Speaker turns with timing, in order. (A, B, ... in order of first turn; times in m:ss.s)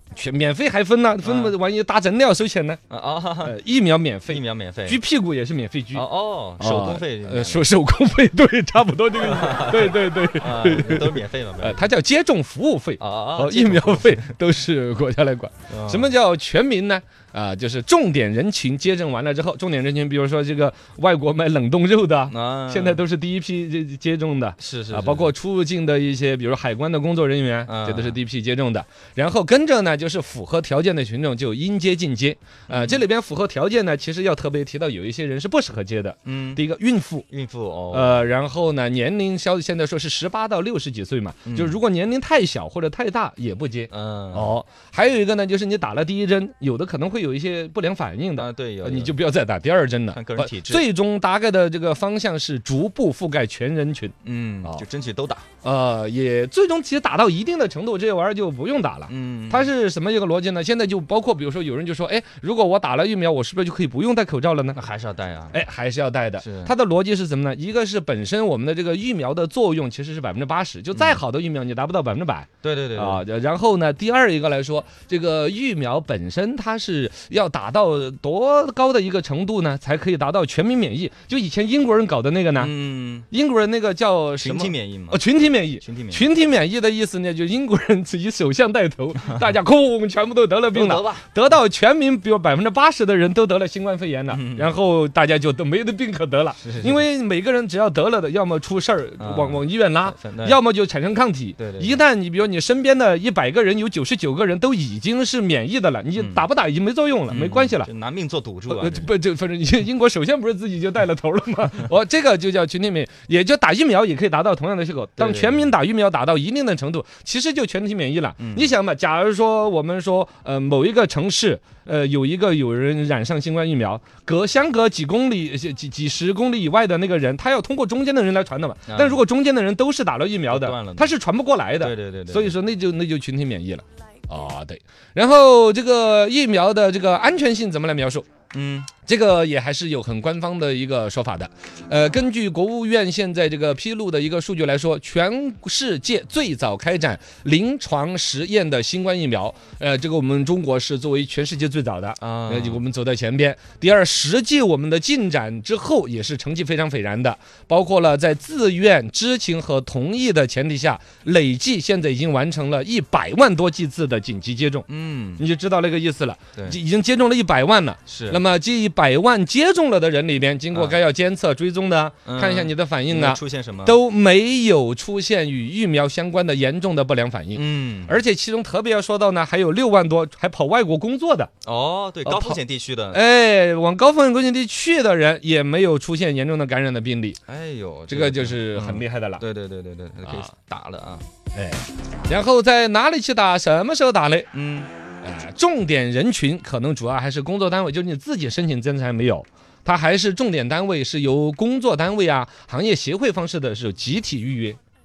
0:00.1-0:02.8 A
0:01.2-0:01.6 B
0:02.9-0:03.6 B
0:03.4-0:06.0 A
0:04.3-0:05.0 B
0:05.9-0:07.7 B
0:06.6-0:37.3 A
0:09.2-0:11.9 B
0:13.0-0:14.3 B
0:15.7-0:16.1 B
0:22.3-0:23.1 B
0:24.6-0:25.3 B
0:27.7-0:28.2 B
0:32.7-0:33.0 B
0:36.3-0:36.6 B
0:37.3-0:38.3 B
0:37.9-0:54.8 A
0:41.4-0:41.8 B
0:43.9-0:44.6 B
0:48.4-0:49.2 B
0:50.1-0:50.9 B
0:54.2-0:55.5 B
0:55.6-1:04.8 A
0:59.1-0:59.7 B
1:04.8-1:05.6 B
1:05.5-1:22.7 A
1:06.4-1:06.7 B
1:10.9-1:11.2 B
1:12.6-1:13.2 B
1:22.6-1:23.3 B
1:23.3-1:47.9 A
1:24.4-1:25.2 B
1:25.8-1:26.3 B
1:30.7-1:31.3 B
1:34.3-1:34.8 B
1:36.6-1:37.0 B
1:39.2-1:40.6 B
1:41.6-1:42.0 B
1:46.2-1:46.5 B
1:47.3-1:49.1 B
1:48.7-2:18.3 A
1:55.2-1:55.7 B
1:58.4-1:58.7 B
2:08.9-2:09.2 B
2:10.5-2:11.1 B
2:11.8-2:12.6 B
2:18.5-2:18.9 B
2:19.1-2:44.8 A
2:32.2-2:32.8 B
2:44.9-2:45.5 B
2:45.4-3:01.5 A
2:48.1-2:48.4 B
2:50.7-2:51.0 B
2:52.2-2:54.0 B
2:57.5-2:58.2 B
3:01.6-3:03.2 B
3:02.2-3:02.6 A
3:03.1-3:07.4 A
3:07.5-3:11.3 B
3:08.1-3:09.4 A
3:10.2-3:10.5 A
3:11.5-3:14.5 A
3:14.5-3:14.9 B
3:15.2-3:24.8 A